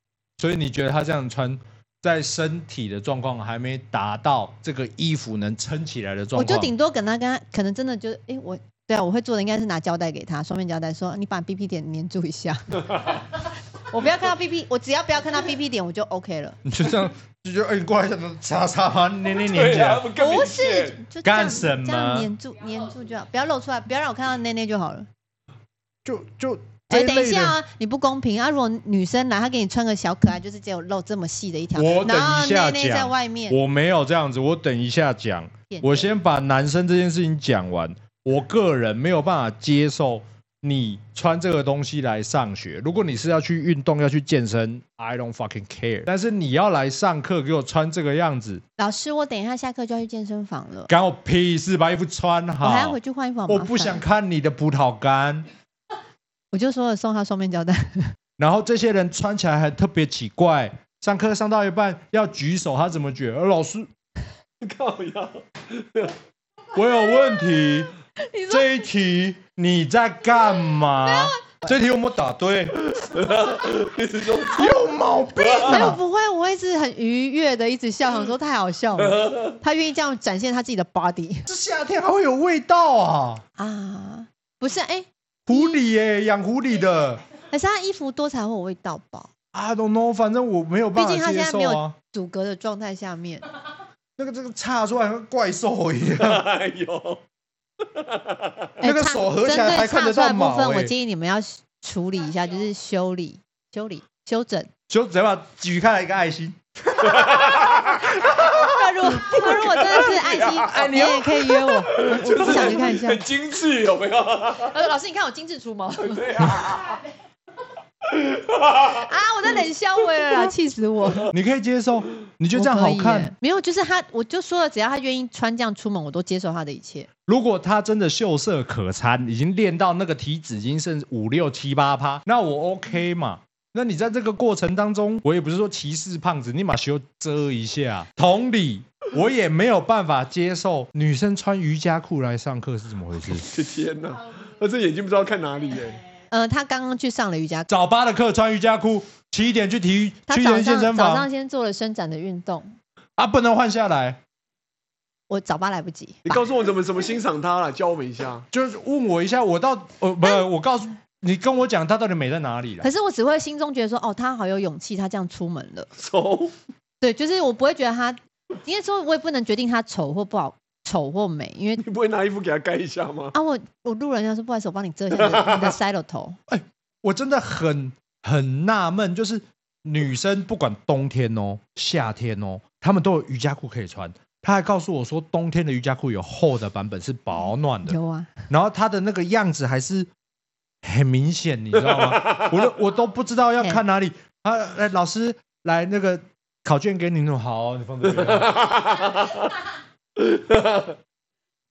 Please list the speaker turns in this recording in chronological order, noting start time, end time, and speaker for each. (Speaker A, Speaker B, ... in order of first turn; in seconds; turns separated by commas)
Speaker A: 0.4-6.7, Speaker B: 6.3-13.1, Speaker B: 13.9-16.6, Speaker A: 16.6-20.1, Speaker C: 19.3-21.0, Speaker B: 20.1-25.1, Speaker A: 21.2-22.3, Speaker A: 26.0-27.6, Speaker B: 26.9-33.6, Speaker A: 31.8-48.6, Speaker B: 35.7-36.1, Speaker B: 48.8-50.9, Speaker A: 50.9-53.0, Speaker B: 52.6-54.0, Speaker A: 53.5-55.5, Speaker B: 56.5-58.1, Speaker A: 58.4-63.9, Speaker C: 64.6-66.1, Speaker A: 66.7-67.9, Speaker B: 68.2-68.8, Speaker A: 68.5-72.8, Speaker B: 71.0-71.5, Speaker C: 72.9-74.8, Speaker A: 74.5-76.0, Speaker C: 75.3-75.9, Speaker B: 75.6-81.5, Speaker C: 79.0-79.5, Speaker A: 81.5-83.4, Speaker B: 83.6-85.8, Speaker A: 85.5-87.2, Speaker B: 87.5-89.3, Speaker A: 89.5-92.0, Speaker B: 90.9-93.5, Speaker A: 94.2-96.4, Speaker C: 96.1-97.2, Speaker C: 97.8-98.7, Speaker B: 98.8-104.7, Speaker A: 98.8-100.9, Speaker A: 104.9-108.7, Speaker C: 107.0-108.1, Speaker B: 108.4-113.2, Speaker C: 109.1-110.7, Speaker A: 110.7-111.5, Speaker C: 112.0-114.7, Speaker A: 112.4-112.8, Speaker B: 114.7-116.2, Speaker C: 116.0-117.0, Speaker C: 118.0-119.0, Speaker B: 118.9-121.3, Speaker A: 121.3-123.3, Speaker B: 122.5-127.1, Speaker A: 127.3-143.5, Speaker C: 143.3-146.0, Speaker B: 146.3-147.7, Speaker A: 147.7-151.3, Speaker B: 150.3-152.7, Speaker A: 153.2-154.2, Speaker B: 155.3-156.4, Speaker C: 156.2-158.4, Speaker A: 158.5-162.9, Speaker B: 162.8-165.9, Speaker C: 166.0-166.5, Speaker B: 167.0-171.8, Speaker C: 171.8-173.3, Speaker B: 173.3-176.4, Speaker C: 175.3-175.7, Speaker A: 176.5-188.0, Speaker B: 187.8-188.3, Speaker A: 188.5-190.1, Speaker A: 190.8-198.6, Speaker C: 192.0-192.4, Speaker C: 198.2-199.5, Speaker C: 200.2-201.0